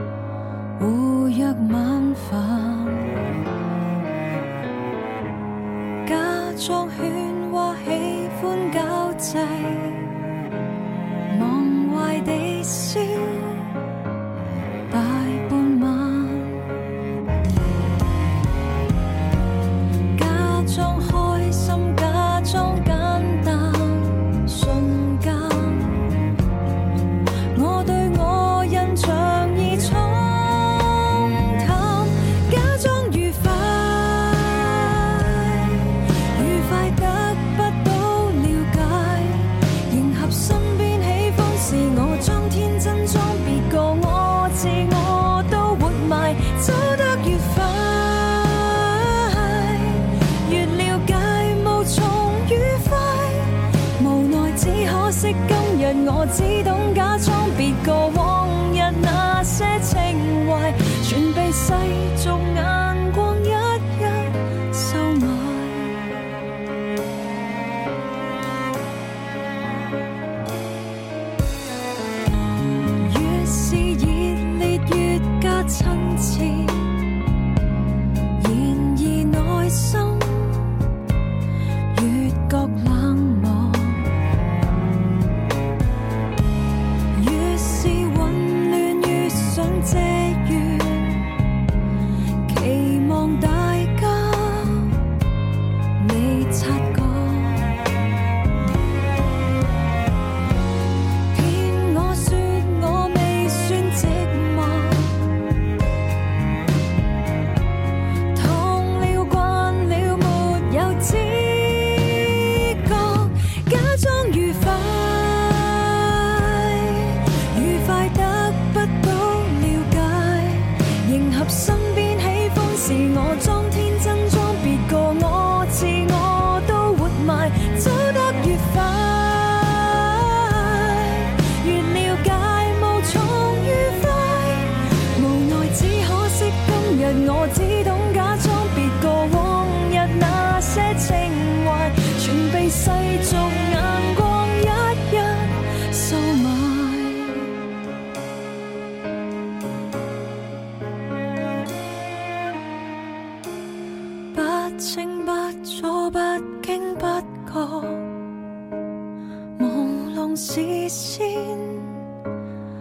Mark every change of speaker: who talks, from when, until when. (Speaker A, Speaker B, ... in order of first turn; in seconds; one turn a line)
Speaker A: 0.8-3.1
Speaker A: 6.0-10.1
Speaker A: 11.3-13.7
Speaker A: 14.9-16.6
Speaker A: 20.1-26.0
Speaker A: 27.5-66.2
Speaker A: 73.0-77.0
Speaker A: 78.4-80.7
Speaker A: 81.9-84.1
Speaker A: 87.1-91.3
Speaker A: 92.5-95.0
Speaker A: 96.0-97.8
Speaker A: 101.3-105.2
Speaker A: 108.3-147.5
Speaker A: 154.3-158.1
Speaker A: 159.6-162.0